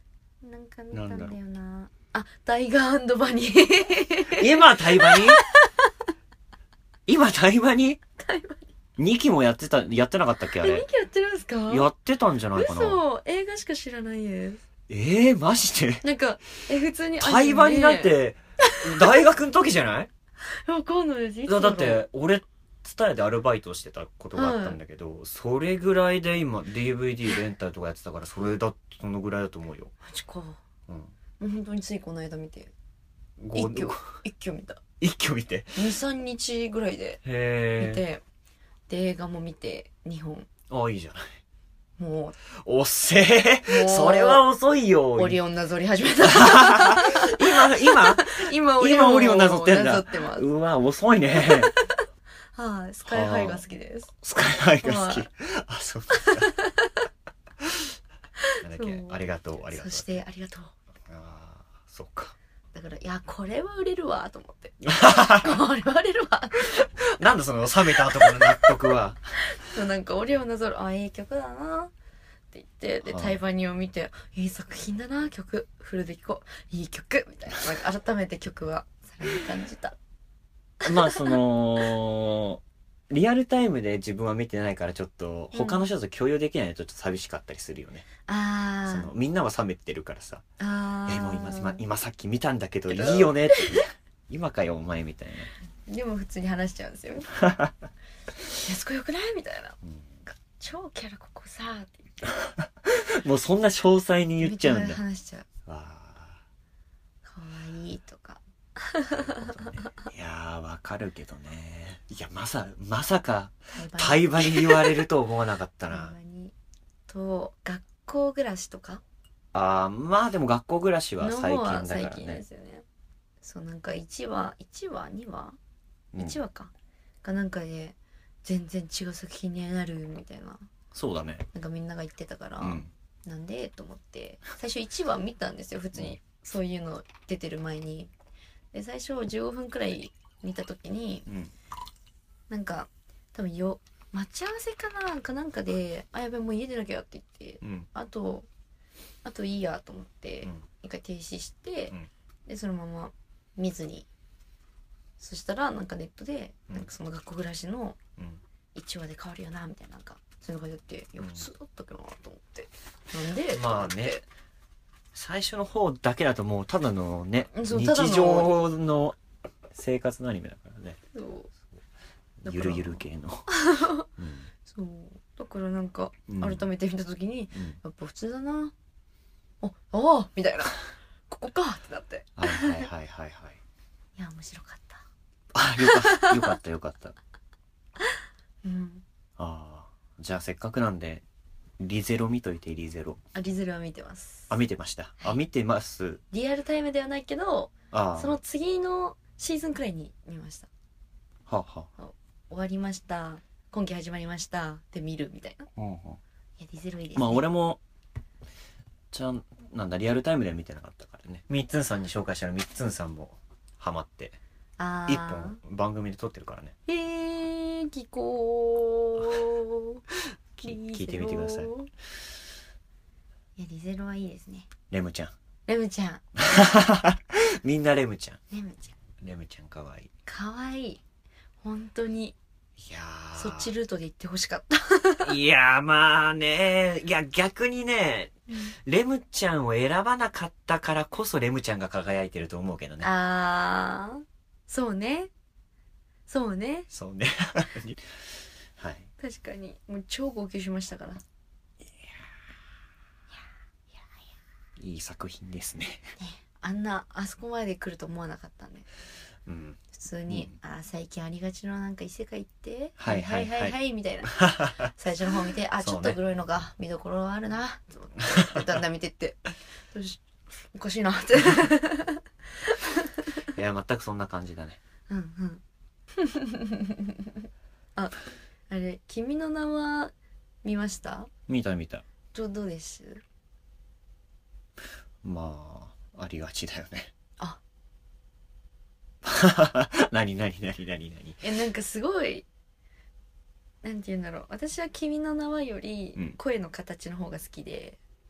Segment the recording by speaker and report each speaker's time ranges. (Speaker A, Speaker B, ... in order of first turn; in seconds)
Speaker A: 0.4-5.9, 8.2-8.7, 10.5-11.9, 12.5-14.6, 16.0-18.2, 20.4-22.1, 24.3-24.8, 30.0-30.6, 31.4-32.7, 33.5-34.8, 35.8-37.2, 37.8-38.2, 38.9-40.5, 42.0-42.4, 43.6-44.4, 45.1-50.5, 51.4-51.9, 52.5-54.1, 54.8-55.3, 56.1-57.0, 58.4-60.7, 62.7-66.8, 68.0-68.6, 69.4-71.9, 72.5-80.0, 80.9-81.4, 85.5-85.9, 88.2-89.1, 90.6-91.8, 92.9-93.8, 95.8-97.3, 98.5-102.3, 104.4-105.5, 107.2-110.1, 113.7-115.0, 115.9-116.5, 117.1-119.0, 121.2-122.8, 123.4-125.6, 126.2-126.7, 127.2-130.7, 131.5-138.1, 138.7-141.3, 142.5-148.5, 149.2-151.9, 152.4-154.1, 155.2-158.0, 158.7-164.2, 167.5-168.6, 171.1-171.5, 172.4-174.1, 174.6-178.7, 179.6-182.9, 184.2-185.0, 185.8-186.4, 188.6-189.0, 193.3-194.5, 196.3-200.7, 202.0-205.7, 206.6-207.4, 214.8-215.6, 216.9-220.0, 220.6-221.9, 223.6-224.7, 225.7-226.2, 228.5-229.0, 230.2-231.0, 231.6-232.3, 233.3-235.3, 243.0-245.3, 246.3-246.9, 249.2-251.2, 256.2-258.9, 259.9-270.2, 270.7-273.4, 275.1-275.6, 276.2-277.4, 277.9-280.1, 280.6-281.3, 282.3-283.2, 291.4-292.4, 293.8-298.0
Speaker B: 0.9-1.4, 4.3-5.4, 7.1-8.0, 9.0-10.8, 11.7-13.0, 14.9-16.0, 17.2-20.1, 21.4-29.9, 33.4-34.0, 35.0-35.9, 37.2-38.0, 40.7-41.4, 42.5-45.4, 46.3-51.7, 53.0-53.6, 54.2-56.5, 58.6-60.2, 61.1-62.3, 64.8-65.6, 66.6-69.3, 73.0-73.4, 80.8-88.1, 88.8-90.4, 91.1-95.5, 97.4-97.7, 99.8-100.1, 102.8-105.0, 105.7-106.4, 109.1-116.2, 119.5-122.4, 126.1-126.4, 130.9-131.5, 132.6-132.9, 141.3-141.5, 147.6-147.9, 161.2-161.5, 163.5-164.2, 165.1-169.2, 169.7-171.0, 172.4-174.5, 176.3-176.7, 177.5-177.8, 182.4-183.6, 185.5-187.2, 189.4-191.2, 191.8-193.2, 194.5-196.2, 197.9-198.4, 201.5-201.9, 205.8-206.2, 207.1-207.8, 209.1-214.4, 215.1-216.8, 220.6-221.7, 224.9-225.3, 226.4-228.4, 229.2-230.1, 232.8-233.7, 235.2-238.3, 238.8-243.1, 246.9-248.2, 248.8-249.1, 254.8-256.1, 259.4-260.5, 263.0-264.9, 265.8-266.2, 273.5-274.8, 281.5-282.0, 285.2-287.1, 289.2-291.4